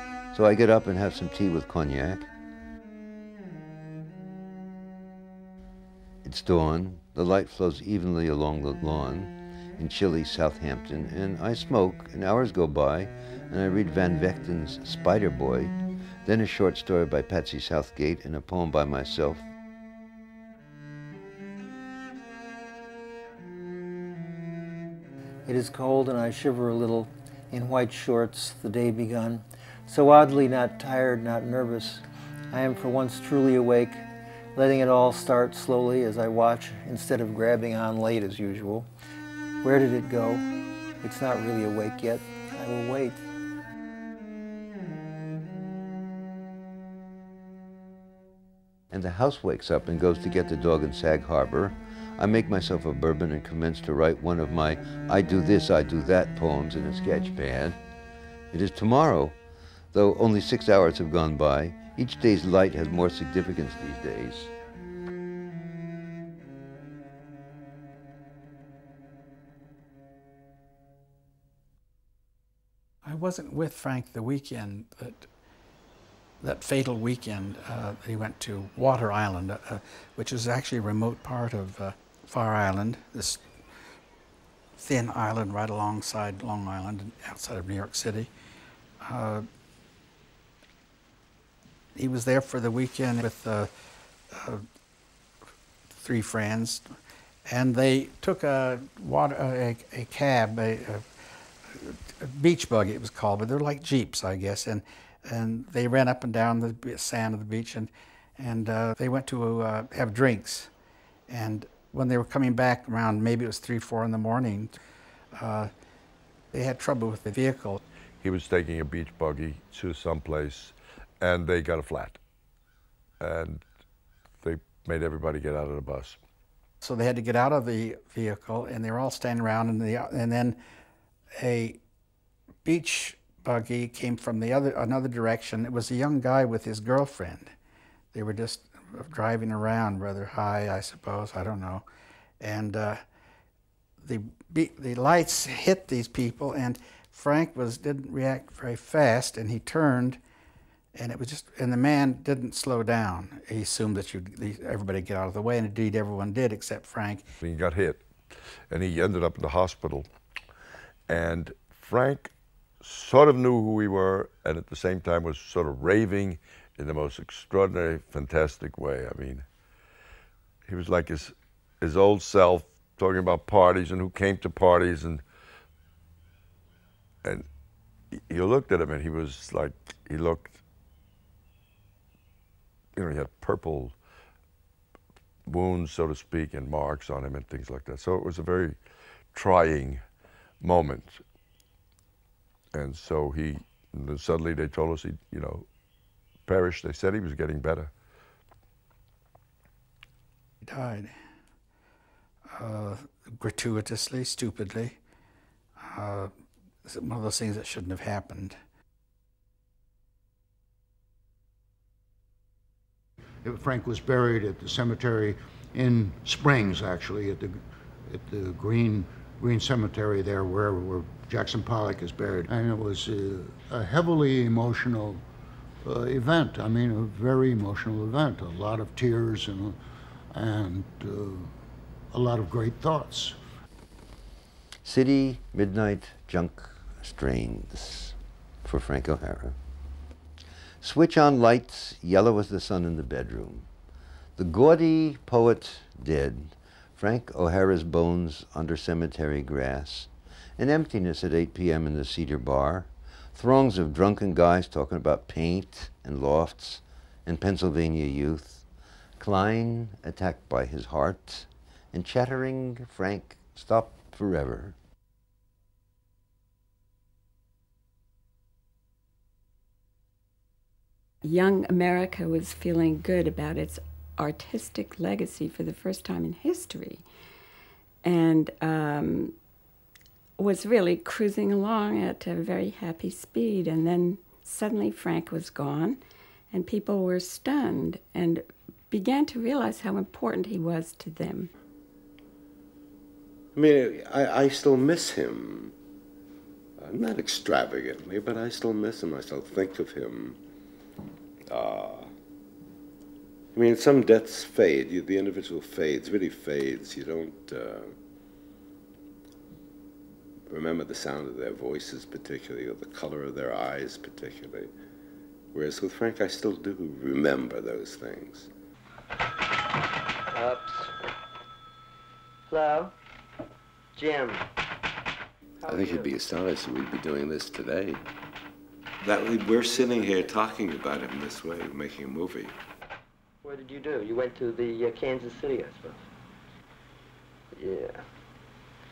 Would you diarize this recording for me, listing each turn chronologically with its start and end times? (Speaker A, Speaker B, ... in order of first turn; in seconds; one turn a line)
Speaker A: 0.3-2.3
Speaker A: 6.2-15.7
Speaker A: 16.2-19.4
Speaker B: 25.4-34.0
Speaker B: 34.5-38.9
Speaker B: 39.6-40.4
Speaker B: 41.0-43.2
Speaker A: 48.9-57.8
Speaker A: 58.5-59.4
Speaker A: 59.9-64.5
Speaker C: 73.0-75.3
Speaker C: 76.4-83.4
Speaker C: 84.8-88.3
Speaker C: 89.0-89.5
Speaker C: 92.0-93.7
Speaker C: 94.3-94.6
Speaker C: 95.9-96.9
Speaker C: 97.5-101.0
Speaker C: 101.7-110.7
Speaker C: 111.3-114.8
Speaker C: 115.3-115.7
Speaker C: 116.5-117.8
Speaker D: 118.2-122.2
Speaker D: 123.2-123.6
Speaker D: 124.4-126.2
Speaker C: 126.8-130.6
Speaker C: 131.4-131.8
Speaker C: 132.6-137.5
Speaker C: 138.1-141.8
Speaker C: 142.4-143.0
Speaker C: 144.0-150.2
Speaker C: 150.9-157.2
Speaker D: 157.4-158.1
Speaker D: 158.7-160.1
Speaker D: 161.1-169.4
Speaker D: 170.7-175.2
Speaker D: 178.3-180.6
Speaker D: 182.9-183.9
Speaker D: 185.5-188.8
Speaker D: 189.3-190.0
Speaker D: 190.6-191.2
Speaker D: 192.7-195.7
Speaker D: 196.4-197.9
Speaker C: 200.6-201.1
Speaker C: 202.5-204.9
Speaker C: 205.8-206.3
Speaker C: 206.8-208.6
Speaker E: 213.4-225.2
Speaker E: 225.8-229.8
Speaker E: 230.3-231.5
Speaker E: 232.1-233.4
Speaker A: 234.8-239.6
Speaker A: 240.8-243.7
Speaker A: 244.4-258.6
Speaker A: 259.2-264.7
Speaker F: 271.2-277.0
Speaker F: 278.0-279.3
Speaker F: 280.4-286.0
Speaker F: 286.5-291.5
Speaker G: 293.5-295.7
Speaker G: 296.8-300.4
Speaker G: 301.5-302.1
Speaker G: 303.5-307.9
Speaker G: 310.5-314.7
Speaker G: 315.5-318.5
Speaker H: 320.3-321.0
Speaker H: 322.5-322.9
Speaker H: 323.9-324.4
Speaker H: 325.6-326.1
Speaker G: 325.7-328.0
Speaker G: 329.0-332.6
Speaker H: 333.4-336.0
Speaker H: 337.5-338.0